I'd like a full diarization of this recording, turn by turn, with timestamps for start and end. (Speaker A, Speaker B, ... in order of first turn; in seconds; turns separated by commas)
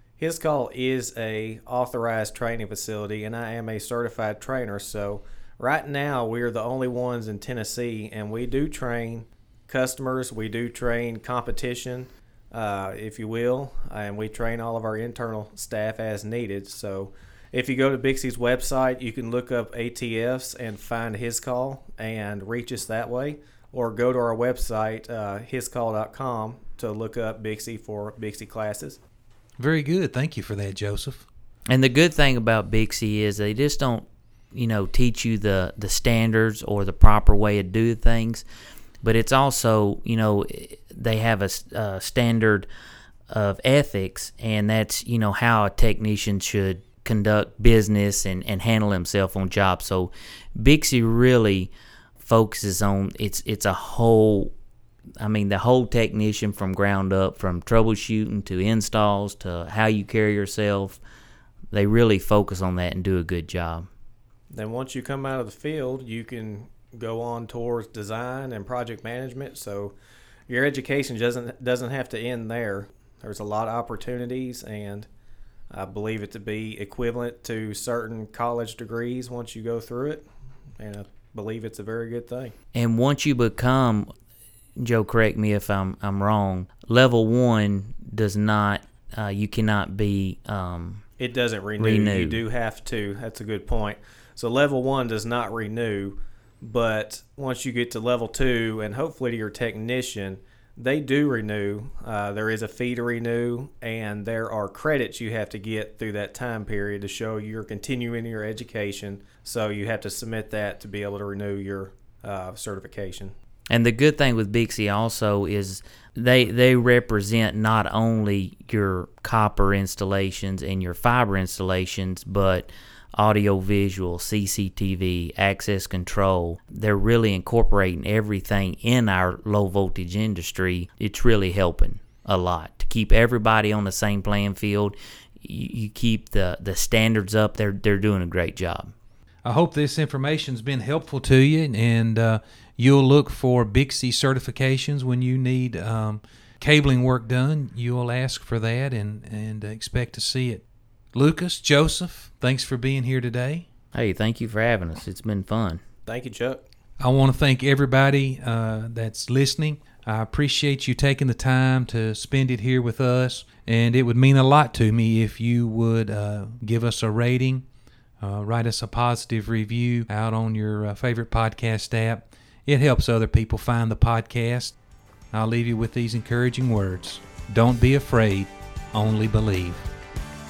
Speaker A: 0.2-29.0, Speaker B: 29.6-31.3, Speaker C: 31.7-38.5, Speaker C: 39.0-42.7, Speaker C: 43.3-54.5, Speaker C: 55.2-61.0, Speaker C: 61.7-63.9, Speaker A: 64.5-70.0, Speaker A: 70.5-75.1, Speaker A: 75.7-80.3, Speaker A: 80.8-82.5, Speaker C: 82.7-84.1, Speaker C: 84.8-91.0, Speaker A: 91.2-113.3, Speaker C: 91.8-92.4, Speaker C: 113.7-138.9, Speaker B: 139.4-150.6, Speaker B: 151.1-153.7, Speaker C: 153.9-155.8, Speaker A: 156.1-156.7, Speaker B: 157.0-167.7, Speaker B: 168.2-174.8, Speaker B: 175.3-179.8